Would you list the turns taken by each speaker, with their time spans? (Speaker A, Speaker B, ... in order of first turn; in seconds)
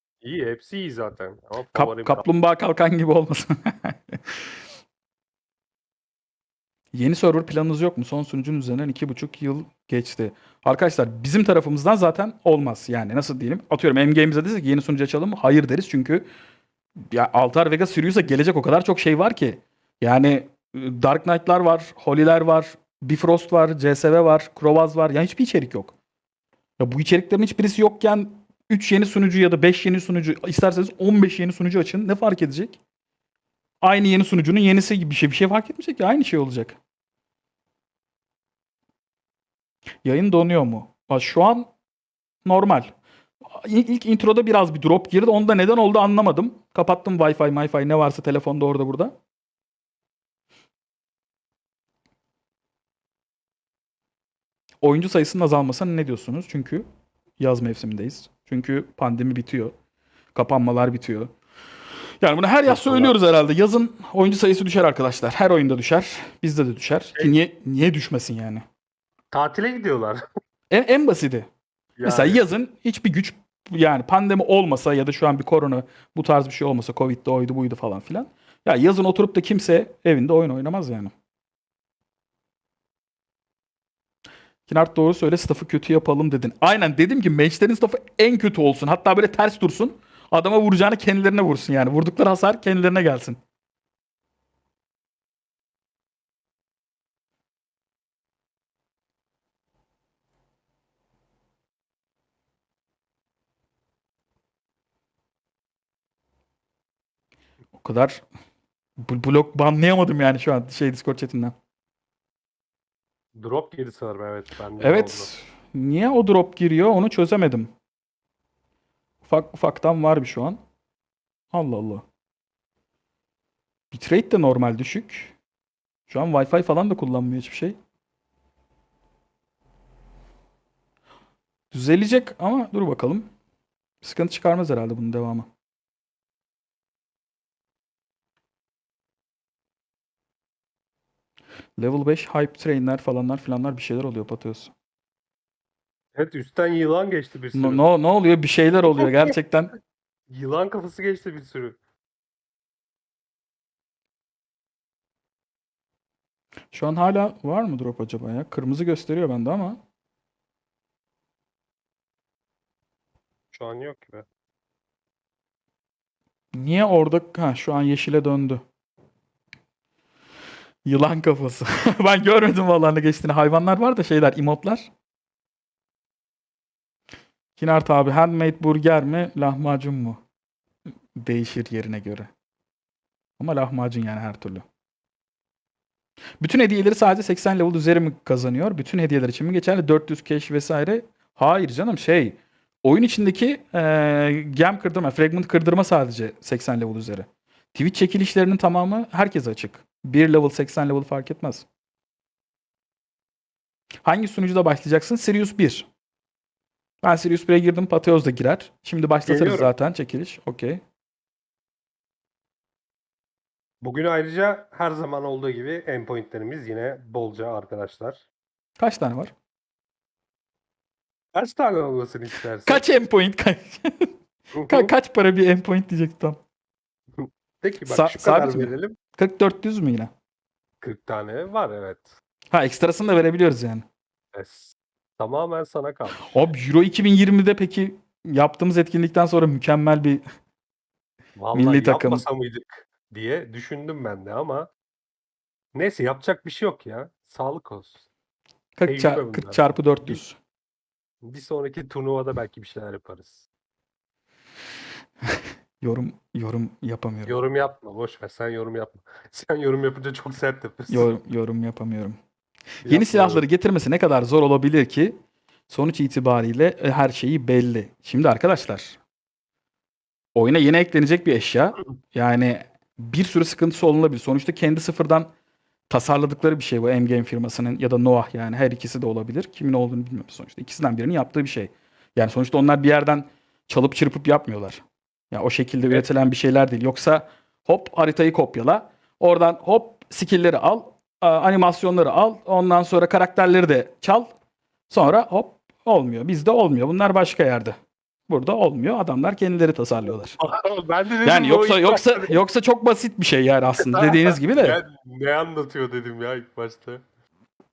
Speaker A: 0.2-2.2, 62.6-63.2, 69.3-70.2, 72.0-72.4, 113.3-115.3, 146.1-147.8, 150.3-151.8, 163.5-164.3, 209.2-209.7, 213.8-218.2, 221.3-222.8, 224.5-224.9, 227.2-229.0, 230.8-232.1, 234.3-236.4, 241.4-244.7, 245.7-248.1, 248.8-250.2, 251.2-253.4, 257.2-261.1, 262.8-263.4, 300.4-302.4, 303.8-307.0
Speaker B: 1.7-4.2, 6.9-16.3, 17.1-25.9, 26.8-32.8, 33.8-36.8, 40.0-41.7, 42.4-42.9, 43.5-49.1, 54.8-56.9, 57.4-59.7, 60.3-61.3, 62.2-68.6, 70.7-71.5, 72.0-81.1, 84.7-93.4, 107.8-108.2, 109.0-111.5, 114.8-117.7, 119.2-120.6, 121.5-122.0, 123.9-125.3, 126.1-127.8, 131.7-133.3, 134.0-135.5, 141.8-144.7, 147.5-149.7, 156.7-159.8, 166.5-168.6, 170.8-174.9, 177.6-180.2, 181.2-182.3, 183.4-184.6, 186.4-201.7, 204.0-205.9, 207.0-210.8, 218.8-219.3, 222.6-224.1, 224.6-226.4, 227.8-230.1, 232.5-233.8, 236.2-240.2, 241.5-242.2, 248.8-250.4, 255.8-257.4, 260.9-262.2, 262.9-265.1, 265.7-269.0, 270.3-275.3, 275.9-294.3, 294.9-300.3, 301.2-304.8